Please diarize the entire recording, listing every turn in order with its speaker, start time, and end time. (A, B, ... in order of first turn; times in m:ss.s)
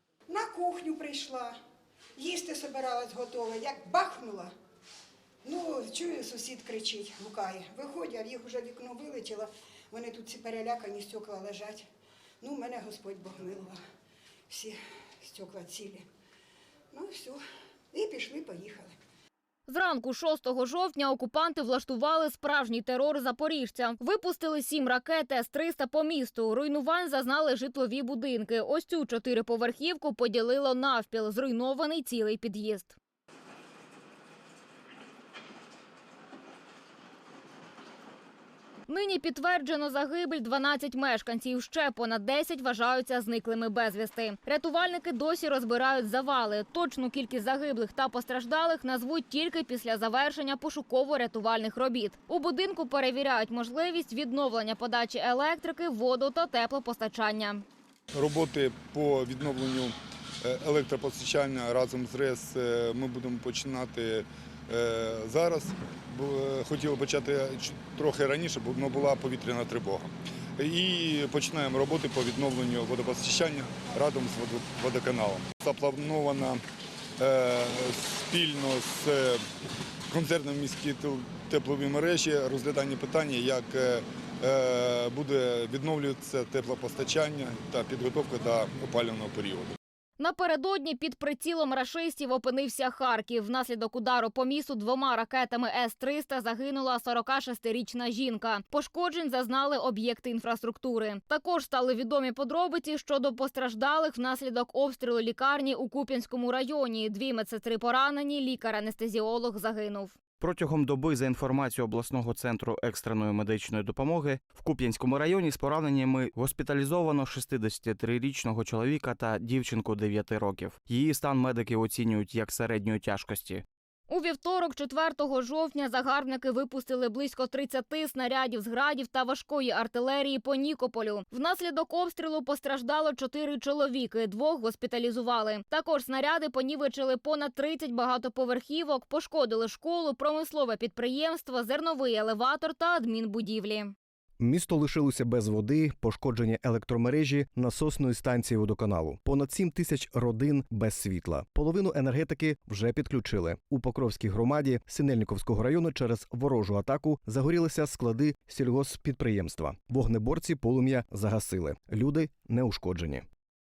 0:00.3-0:01.6 A
0:02.2-0:04.5 A
0:05.4-0:11.9 A
0:12.4-0:13.8 A
0:14.5-0:16.0 A
0:16.9-0:17.4 A
0:17.9-0:18.9 A
0:19.7-0:33.0 B
0:38.9-0:57.6 B
0:58.1-1:16.6 C
1:17.2-1:19.4 C
1:20.1-1:29.8 C
1:30.2-1:50.2 B
1:50.4-2:03.6 D
2:04.1-2:23.9 B
2:24.4-2:43.3 E